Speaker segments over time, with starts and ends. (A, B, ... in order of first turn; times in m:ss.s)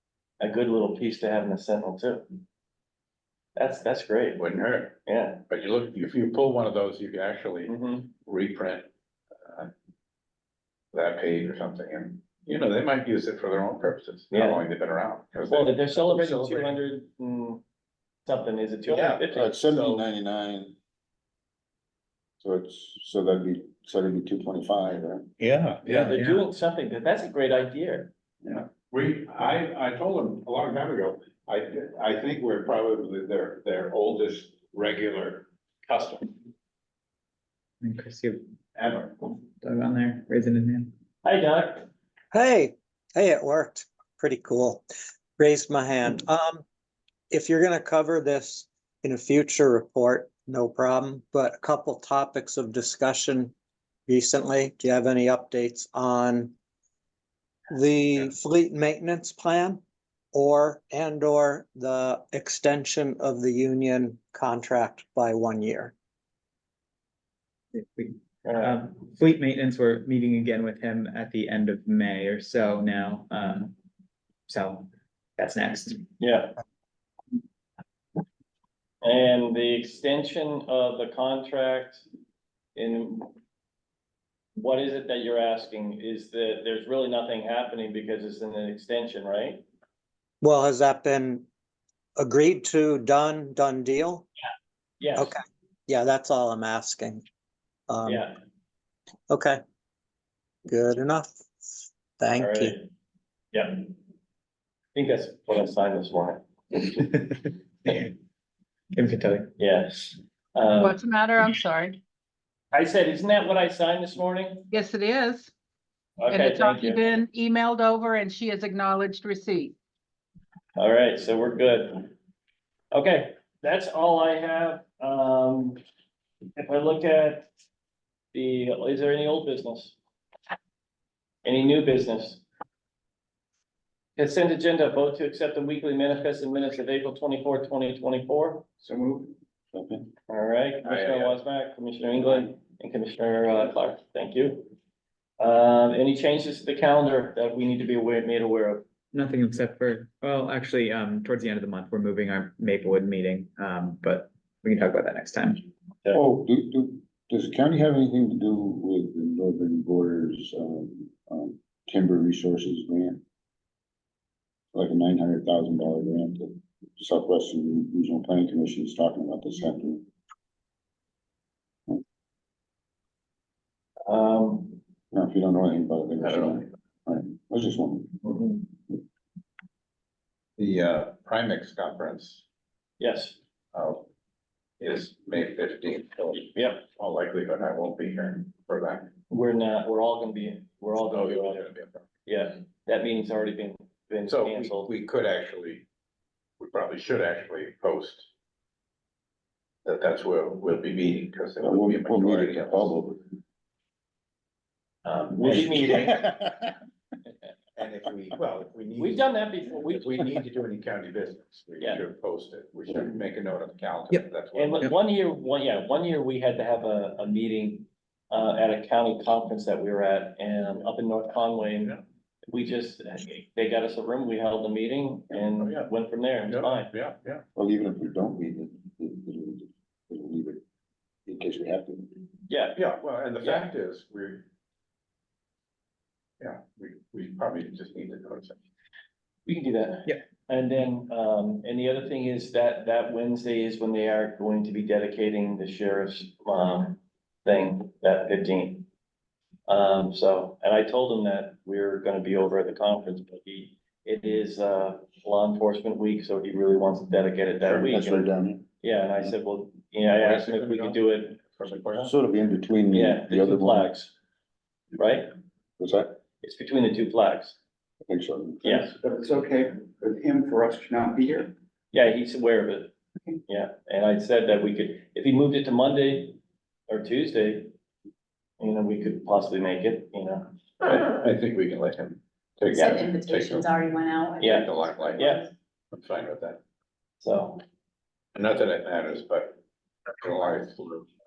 0:00.4-0:02.2 A
0:03.6-0:04.4 A
0:04.4-0:08.9 B
0:05.0-0:05.4 A
0:07.7-0:08.1 A
0:09.4-0:09.7 B
0:10.9-0:16.8 B
0:14.3-0:14.6 A
0:15.5-0:17.6 A
0:18.2-0:19.5 A
0:18.9-0:20.0 B
0:19.3-0:20.7 C
0:22.4-0:25.2 C
0:25.4-0:26.1 B
0:25.8-0:26.4 D
0:25.8-0:28.1 A
0:28.4-0:36.3 B
0:37.8-0:38.4 D
0:38.8-0:39.1 B
0:39.6-0:40.9 D
0:41.2-0:41.9 A
0:42.3-0:44.8 E
0:45.4-0:46.6 E
0:47.3-0:53.5 E
0:54.1-0:56.5 E
0:57.7-0:59.8 E
1:00.3-1:05.9 E
1:07.8-1:13.7 D
1:08.4-1:08.8 A
1:14.5-1:16.1 D
1:16.2-1:16.5 A
1:19.0-1:22.0 A
1:22.7-1:23.3 A
1:24.5-1:29.6 A
1:30.4-1:31.5 E
1:32.2-1:34.3 E
1:35.0-1:35.3 A
1:35.2-1:37.2 E
1:37.9-1:38.2 E
1:38.0-1:38.4 A
1:39.3-1:39.6 E
1:40.6-1:42.8 E
1:42.4-1:42.9 A
1:43.5-1:43.9 A
1:44.9-1:47.0 A
1:47.0-1:48.1 D
1:48.9-1:49.5 D
1:49.6-1:51.0 A
1:50.8-1:52.0 F
1:52.7-1:54.7 A
1:54.7-1:55.5 F
1:56.2-1:57.1 A
1:56.3-1:59.7 F
2:00.8-2:02.1 A
2:02.9-2:05.8 A
2:06.6-2:07.5 A
2:08.3-2:10.0 A
2:11.4-2:12.4 A
2:14.2-2:18.6 A
2:18.8-2:19.3 G
2:19.7-2:20.1 C
2:20.3-2:24.7 A
2:20.8-2:21.4 B
2:25.4-2:28.8 A
2:29.1-2:35.7 D
2:36.1-2:43.2 C
2:44.7-2:50.0 C
2:54.1-2:54.8 A
2:55.1-2:58.2 C
2:56.2-2:56.6 B
3:00.6-3:02.4 B
3:03.0-3:03.4 A
3:03.7-3:04.0 B
3:04.8-3:09.1 B
3:06.5-3:06.8 A
3:09.3-3:11.7 A
3:11.1-3:12.1 B
3:12.2-3:14.9 A
3:14.3-3:15.8 B
3:16.6-3:18.3 B
3:19.8-3:22.9 B
3:21.6-3:23.3 C
3:25.0-3:26.2 A
3:25.4-3:25.8 B
3:25.5-3:26.7 C
3:27.8-3:34.9 B
3:29.0-3:30.2 A
3:34.5-3:46.9 A
3:45.3-3:45.9 B
3:46.5-3:47.4 B
3:47.5-3:50.6 C
3:51.2-3:52.2 C
3:52.5-3:52.8 A
3:52.8-3:54.4 B
3:56.4-3:58.6 B
3:59.4-4:08.8 A
4:09.7-4:18.3 A
4:17.6-4:18.7 C
4:18.8-4:21.4 A
4:20.2-4:22.1 B
4:22.0-4:23.9 C
4:22.9-4:24.1 A
4:25.0-4:25.3 A
4:25.8-4:26.2 C
4:26.4-4:27.6 A
4:28.0-4:28.9 C
4:28.6-4:28.9 A
4:29.0-4:31.5 G
4:31.9-4:32.9 A
4:33.5-4:37.7 A
4:38.6-4:40.5 A
4:40.8-4:43.7 B
4:42.7-4:45.5 H
4:44.4-4:45.4 A
4:44.5-4:45.3 B
4:45.9-4:46.6 B
4:47.2-4:47.6 A
4:48.3-4:49.6 B
4:50.2-4:51.1 B